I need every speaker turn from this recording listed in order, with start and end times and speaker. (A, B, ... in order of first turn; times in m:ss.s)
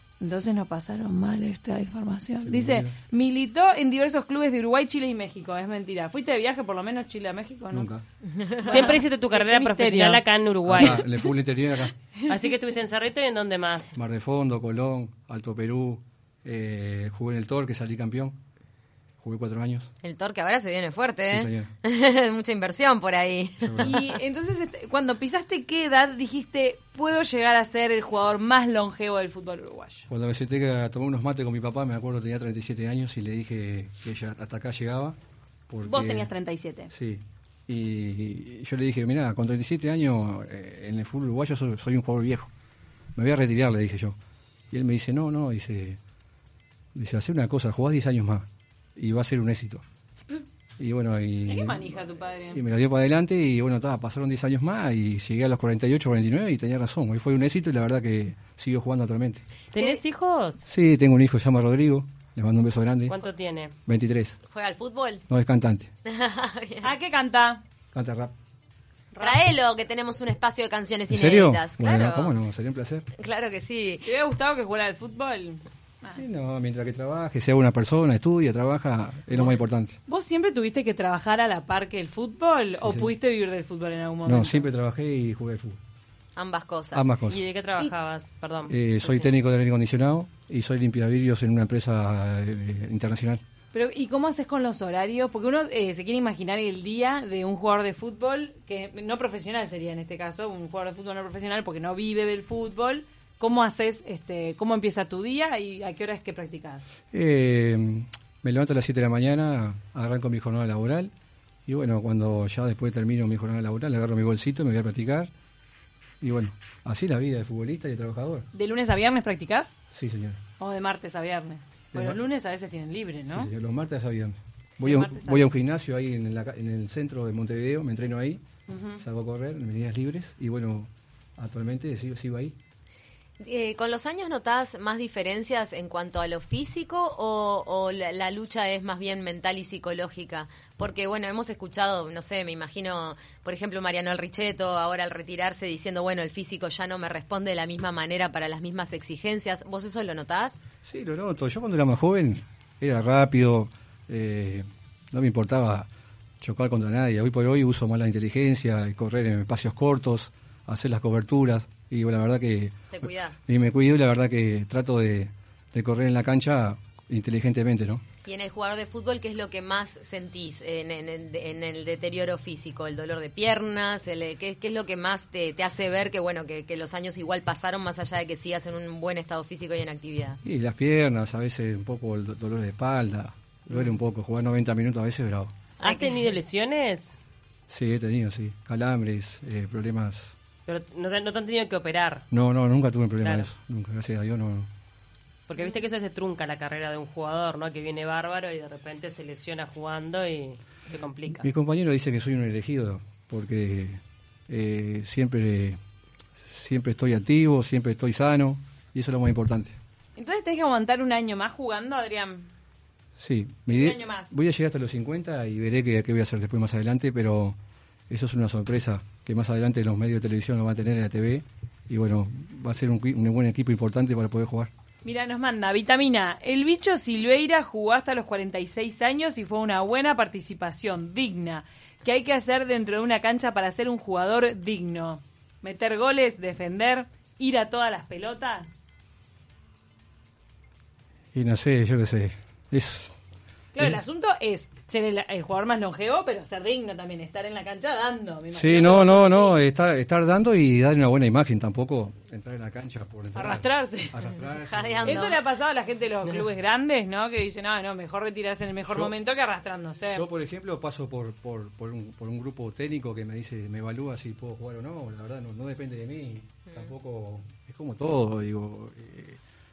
0:00.2-0:07.9 A
0:02.4-0:03.0 B
0:07.7-0:08.0 B
0:08.3-0:08.9 C
0:08.6-0:10.2 A
0:08.7-0:11.0 D
0:10.7-0:11.9 B
0:10.8-0:11.3 A
0:12.3-0:13.9 D
0:14.0-0:18.4 B
0:19.2-0:19.9 B
0:20.0-0:24.2 C
0:21.3-0:21.7 B
0:23.6-0:23.9 B
0:23.8-0:30.1 A
0:30.1-0:35.2 B
0:35.7-0:36.3 B
0:35.8-0:36.9 A
0:36.9-0:42.5 B
0:43.2-0:44.2 B
0:44.7-0:46.0 B
0:47.0-0:49.8 B
0:50.8-0:52.0 B
0:51.5-0:52.6 A
0:52.5-0:59.4 B
0:59.7-1:00.6 D
1:00.7-1:03.2 B
1:03.1-1:03.7 D
1:03.9-1:04.4 B
1:04.5-1:05.2 C
1:05.3-1:05.9 B
1:06.1-1:06.9 C
1:06.8-1:07.6 A
1:07.9-1:08.3 B
1:09.1-1:09.4 A
1:09.2-1:12.4 C
1:11.1-1:13.1 B
1:13.2-1:14.1 C
1:14.0-1:16.2 A
1:16.2-1:20.0 B
1:20.1-1:24.7 A
1:22.8-1:23.1 B
1:24.3-1:25.8 B
1:26.4-1:27.1 C
1:26.9-1:27.4 B
1:27.3-1:29.3 D
1:28.7-1:33.4 B
1:33.7-1:46.8 A
1:47.1-1:51.1 B
1:51.7-1:55.3 B
1:56.2-1:58.5 B
1:58.5-1:59.7 A
1:59.9-2:00.4 B
2:00.6-2:03.5 A
2:01.9-2:02.2 B
2:03.3-2:08.4 B
2:04.8-2:05.4 A
2:08.7-2:09.0 A
2:09.0-2:12.6 B
2:13.4-2:30.6 C
2:30.8-2:35.9 B
2:36.4-2:48.0 B
2:42.9-2:43.4 C
2:48.2-3:00.4 C
3:00.4-3:05.5 B
3:05.8-3:07.2 D
3:05.8-3:06.4 C
3:07.7-3:10.4 B
3:10.7-3:12.2 D
3:12.3-3:14.7 B
3:13.2-3:13.5 D
3:15.5-3:21.5 D
3:21.4-3:25.8 B
3:26.5-3:29.8 B
3:30.2-3:32.5 A
3:33.2-3:37.6 B
3:33.7-3:34.3 A
3:38.1-3:44.7 B
3:45.0-3:58.7 A
4:01.3-4:03.2 B
4:03.7-4:09.6 A
4:08.5-4:15.4 B
4:13.4-4:14.3 A
4:14.6-4:15.4 C
4:15.0-4:20.2 A
4:18.9-4:19.1 B
4:20.1-4:29.4 B